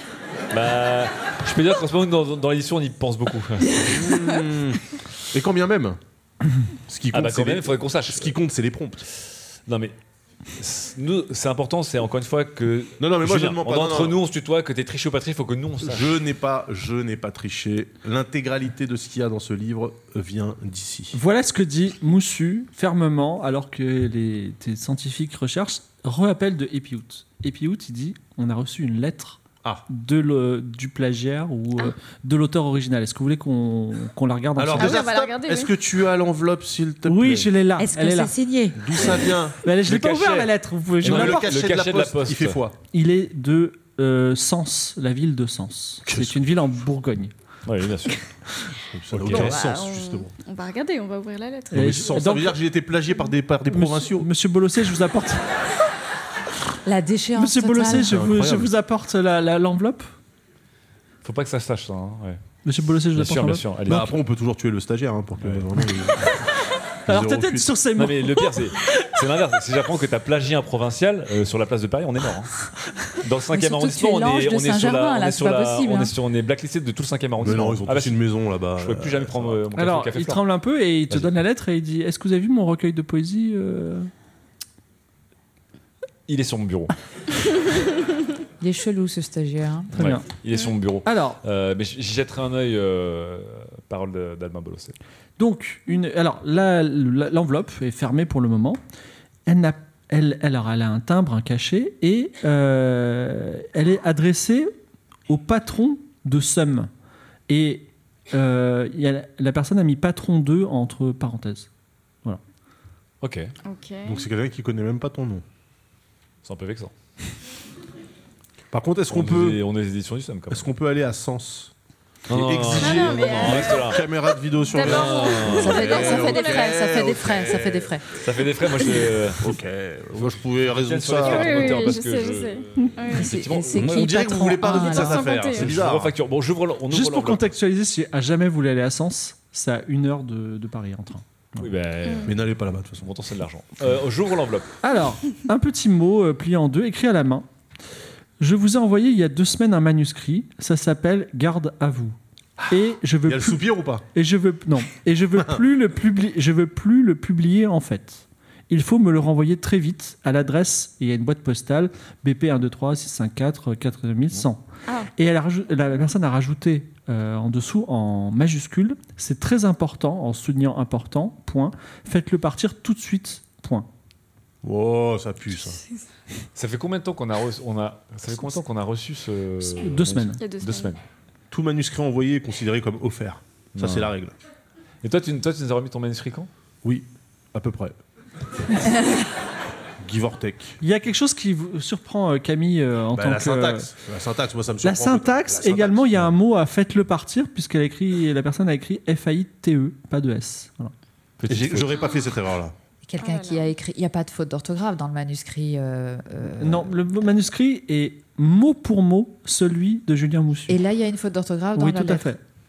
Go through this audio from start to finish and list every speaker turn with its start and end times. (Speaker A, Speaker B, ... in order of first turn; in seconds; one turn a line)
Speaker A: 0.5-4.1
Speaker B: 3.9-4.8
Speaker B: 5.3-6.0
Speaker B: 6.9-9.0
Speaker A: 7.1-8.3
Speaker A: 9.1-9.9
Speaker A: 10.5-16.2
Speaker B: 13.0-14.2
Speaker B: 15.8-21.2
Speaker C: 21.1-35.0
Speaker B: 34.6-37.5
Speaker D: 34.8-35.7
Speaker C: 37.0-38.3
Speaker E: 37.8-38.9
Speaker B: 38.8-39.6
Speaker C: 39.6-41.5
Speaker A: 39.8-42.6
Speaker B: 41.0-42.8
Speaker C: 42.9-47.3
Speaker B: 46.0-46.4
Speaker A: 47.6-48.2
Speaker B: 48.9-50.3
Speaker A: 49.1-49.5
Speaker D: 49.3-52.0
Speaker C: 51.7-52.6
Speaker B: 51.7-54.3
Speaker C: 53.7-55.4
Speaker E: 56.8-58.1
Speaker C: 57.4-60.1
Speaker B: 57.8-58.7
Speaker A: 61.2-62.4
Speaker C: 62.6-63.6
Speaker A: 63.1-64.1
Speaker B: 63.9-66.5
Speaker A: 65.4-65.7
Speaker B: 67.1-67.7
Speaker C: 67.1-68.5
Speaker A: 68.0-72.6
Speaker A: 73.1-80.4
Speaker E: 73.5-76.1
Speaker B: 77.4-79.6
Speaker C: 79.8-84.1
Speaker A: 86.3-86.9
Speaker E: 88.6-89.9
Speaker C: 89.9-90.2
Speaker A: 89.9-95.0
Speaker C: 91.0-91.4
Speaker C: 95.4-98.8
Speaker C: 99.5-104.7
Speaker C: 105.3-106.9
Speaker C: 107.5-111.7
Speaker A: 113.2-113.5
Speaker D: 113.7-114.2
Speaker B: 114.0-115.4
Speaker A: 116.4-116.9
Speaker B: 118.7-119.6
Speaker A: 119.1-120.7
Speaker B: 120.5-121.7
Speaker A: 122.3-124.0
Speaker B: 122.3-128.0
Speaker D: 122.7-124.0
Speaker D: 124.7-126.8
Speaker A: 124.8-125.9
Speaker E: 125.5-128.1
Speaker A: 128.2-129.6
Speaker B: 128.8-131.9
Speaker A: 130.1-134.1
Speaker D: 131.2-133.4
Speaker E: 133.1-135.2
Speaker B: 133.7-136.1
Speaker D: 134.6-135.7
Speaker A: 135.5-137.5
Speaker C: 136.9-141.7
Speaker A: 141.6-142.4
Speaker D: 142.0-142.3
Speaker B: 142.2-143.1
Speaker A: 143.0-144.7
Speaker C: 144.8-147.5
Speaker C: 148.4-152.2
Speaker C: 152.7-164.6
Speaker B: 153.2-154.0
Speaker C: 165.2-173.9
Speaker B: 174.6-175.8
Speaker D: 175.7-176.0
Speaker A: 176.5-181.0
Speaker C: 179.8-180.4
Speaker D: 180.4-180.9
Speaker B: 181.5-184.3
Speaker A: 183.7-184.1
Speaker A: 185.0-186.5
Speaker B: 186.8-188.0
Speaker B: 190.0-190.8
Speaker C: 190.8-193.9
Speaker B: 193.1-196.3
Speaker C: 194.8-200.9
Speaker A: 201.4-201.9
Speaker B: 201.5-202.7
Speaker E: 203.1-207.0
Speaker D: 203.2-203.7
Speaker C: 206.6-210.8
Speaker E: 210.7-212.3
Speaker C: 211.7-212.4